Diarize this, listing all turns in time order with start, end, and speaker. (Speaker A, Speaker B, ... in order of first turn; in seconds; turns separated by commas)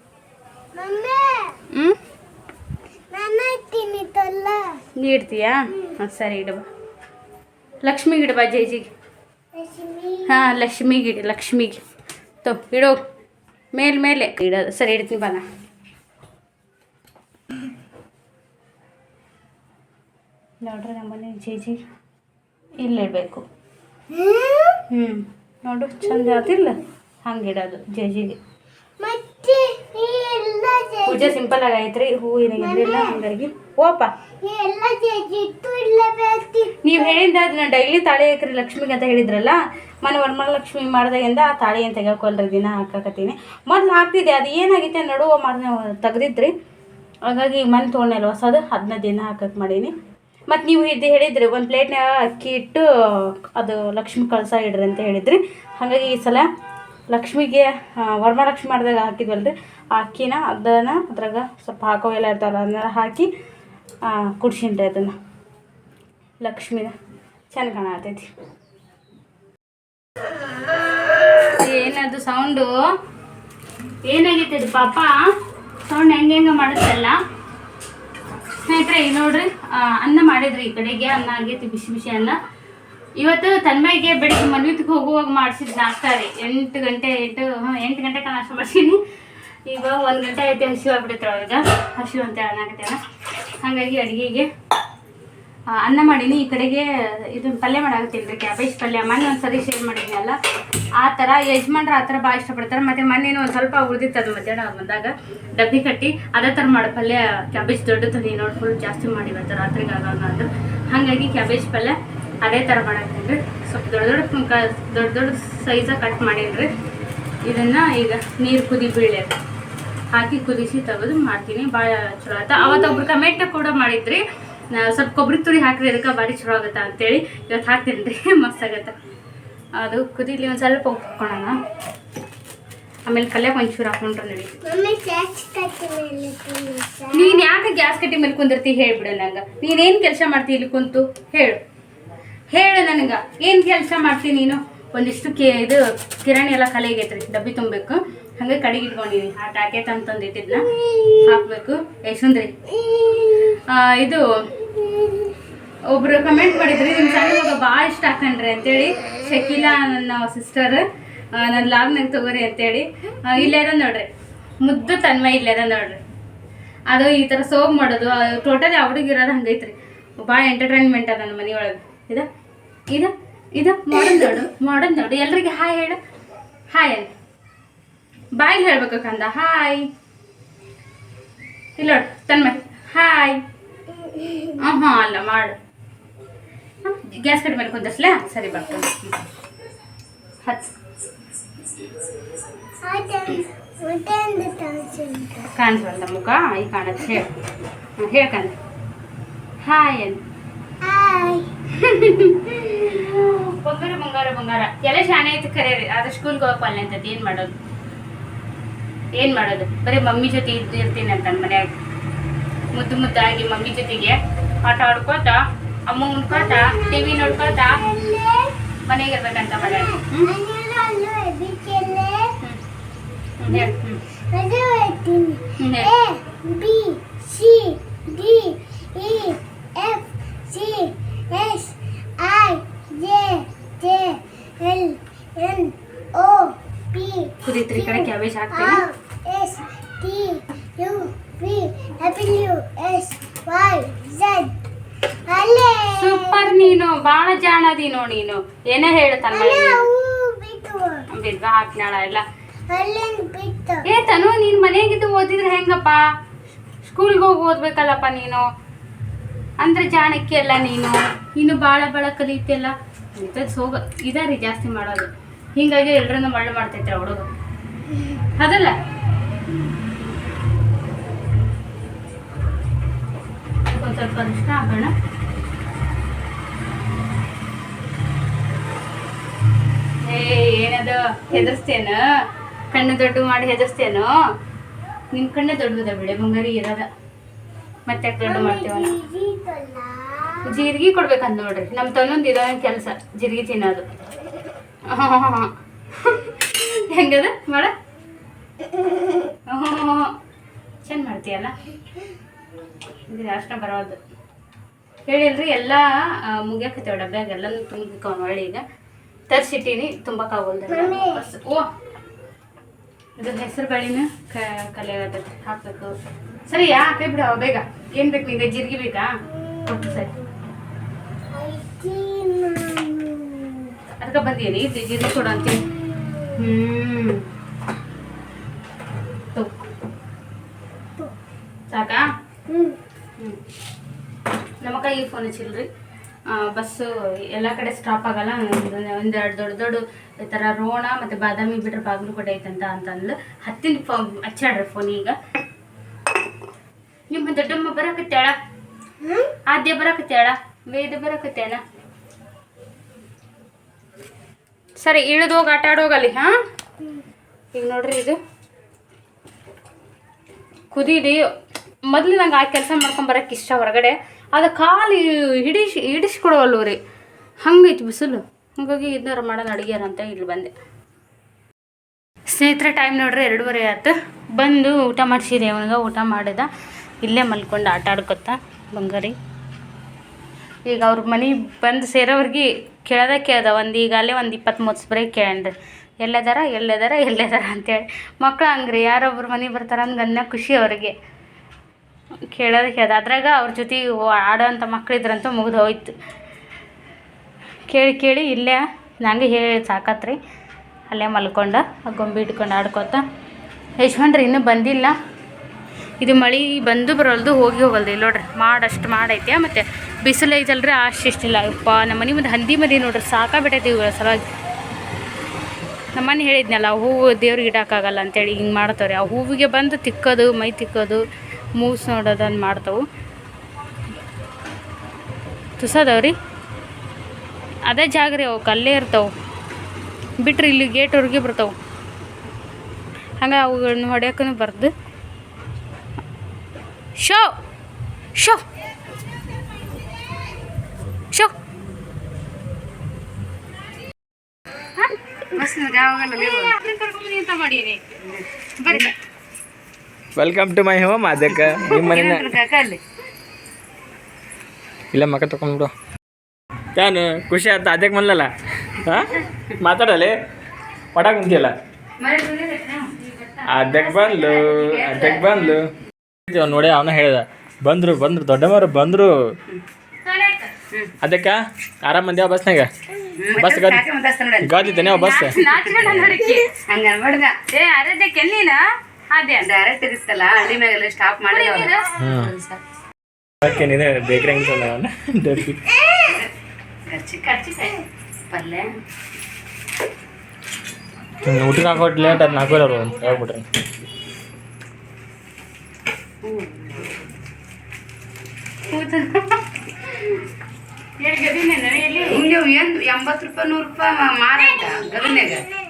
Speaker A: 0.7-1.6, Speaker A: 3.1-4.8, Speaker B: 5.0-6.7, Speaker B: 7.8-8.9, Speaker A: 9.5-10.4, Speaker B: 10.3-11.8, Speaker B: 12.4-13.0, Speaker B: 13.7-15.4, Speaker B: 20.6-21.8, Speaker B: 22.8-23.4, Speaker A: 24.1-24.8, Speaker B: 24.9-28.4, Speaker A: 29.0-31.4, Speaker B: 31.1-34.1, Speaker A: 32.6-33.2, Speaker A: 34.4-37.2, Speaker B: 36.8-46.5, Speaker B: 47.2-49.9, Speaker B: 50.5-56.5, Speaker B: 57.1-63.3, Speaker B: 64.0-65.1, Speaker B: 66.4-66.9, Speaker B: 67.5-68.3, Speaker B: 71.5-72.7, Speaker B: 74.0-75.1, Speaker B: 75.9-77.2, Speaker B: 78.6-82.4, Speaker B: 83.2-89.0, Speaker B: 89.7-93.0, Speaker B: 93.6-94.5, Speaker B: 95.7-100.4, Speaker B: 101.0-116.7, Speaker B: 117.4-119.3, Speaker B: 120.1-124.2, Speaker B: 124.7-128.9, Speaker B: 129.8-131.6, Speaker B: 133.1-134.5, Speaker A: 134.6-137.4, Speaker B: 137.1-141.6, Speaker B: 142.5-150.7, Speaker A: 150.7-151.4, Speaker B: 151.2-152.6, Speaker A: 152.7-153.6, Speaker B: 153.7-154.2, Speaker A: 154.8-155.3, Speaker B: 155.9-164.1, Speaker B: 164.6-166.0, Speaker B: 166.9-172.3, Speaker B: 172.9-176.0, Speaker B: 176.7-177.1, Speaker B: 178.3-179.9, Speaker B: 181.8-183.4, Speaker A: 183.9-184.6, Speaker B: 184.6-185.6, Speaker B: 186.8-189.1, Speaker A: 192.8-195.5, Speaker B: 195.6-197.3, Speaker B: 198.0-198.5, Speaker B: 199.6-200.2, Speaker A: 200.8-201.5, Speaker B: 201.8-207.5, Speaker B: 209.2-211.7, Speaker B: 212.7-217.8, Speaker A: 216.3-218.5, Speaker B: 218.8-220.3, Speaker A: 219.6-222.3, Speaker B: 223.4-224.0, Speaker A: 224.3-244.6, Speaker B: 225.6-225.9, Speaker B: 237.4-238.8, Speaker A: 245.3-246.7, Speaker B: 245.9-249.8, Speaker A: 249.3-251.0, Speaker B: 251.1-252.2, Speaker A: 252.7-253.9, Speaker B: 253.8-256.0, Speaker B: 256.8-258.5, Speaker B: 259.6-267.3, Speaker B: 268.4-268.7, Speaker B: 273.6-274.9, Speaker B: 280.1-282.0, Speaker B: 282.7-284.1, Speaker B: 285.1-286.9, Speaker B: 287.9-288.9, Speaker A: 288.2-290.7, Speaker B: 290.4-293.9, Speaker B: 294.9-297.7, Speaker A: 298.6-299.3, Speaker B: 299.5-300.1, Speaker B: 300.9-301.5, Speaker B: 303.1-304.0, Speaker B: 305.1-308.6, Speaker B: 309.3-311.7, Speaker A: 310.7-311.2, Speaker B: 313.2-315.9, Speaker B: 316.5-319.1, Speaker A: 319.3-320.0, Speaker B: 319.6-320.1, Speaker A: 321.3-323.7, Speaker B: 324.0-325.6, Speaker A: 325.8-326.3, Speaker B: 326.3-327.2, Speaker B: 331.7-332.0, Speaker A: 332.5-332.8, Speaker B: 334.6-335.7, Speaker B: 336.3-345.2, Speaker B: 347.1-348.4, Speaker A: 349.0-349.3, Speaker B: 349.5-351.6, Speaker B: 354.8-356.3, Speaker B: 357.5-358.2, Speaker B: 360.7-361.2, Speaker B: 361.9-366.8, Speaker B: 367.4-370.5, Speaker B: 372.3-376.5, Speaker B: 377.0-379.1, Speaker B: 380.7-390.9, Speaker B: 392.3-395.9, Speaker B: 397.7-400.2, Speaker B: 400.9-403.0, Speaker B: 403.8-404.9, Speaker B: 406.0-414.2, Speaker B: 415.9-421.0, Speaker B: 421.6-422.9, Speaker B: 425.6-426.1, Speaker B: 427.6-429.1, Speaker B: 430.2-431.5, Speaker B: 433.2-434.7, Speaker B: 437.0-437.3, Speaker B: 438.1-438.4, Speaker C: 445.3-446.5, Speaker B: 446.2-447.8, Speaker C: 448.1-448.9, Speaker B: 448.6-448.9, Speaker D: 450.1-452.3, Speaker C: 451.3-452.8, Speaker D: 454.9-455.7, Speaker D: 456.7-458.3, Speaker D: 458.8-460.1, Speaker D: 460.9-461.5, Speaker B: 462.0-464.2, Speaker C: 462.0-462.6, Speaker D: 463.4-465.7, Speaker C: 463.7-465.5, Speaker D: 466.3-469.1, Speaker B: 470.1-470.5, Speaker D: 471.0-472.7, Speaker C: 473.1-474.8, Speaker D: 473.3-473.8, Speaker D: 474.4-476.0, Speaker B: 474.8-476.5, Speaker C: 476.7-477.4, Speaker B: 477.5-478.6, Speaker B: 479.1-479.5, Speaker C: 479.4-482.6, Speaker B: 481.3-481.9, Speaker D: 482.0-482.3, Speaker D: 483.4-485.6, Speaker A: 485.7-486.2, Speaker C: 486.1-486.3, Speaker C: 486.9-488.7, Speaker D: 491.2-493.4, Speaker B: 492.1-493.1, Speaker C: 492.2-492.6, Speaker C: 496.2-497.0, Speaker B: 498.7-499.2, Speaker B: 501.0-502.2, Speaker C: 502.1-505.4, Speaker A: 504.4-505.5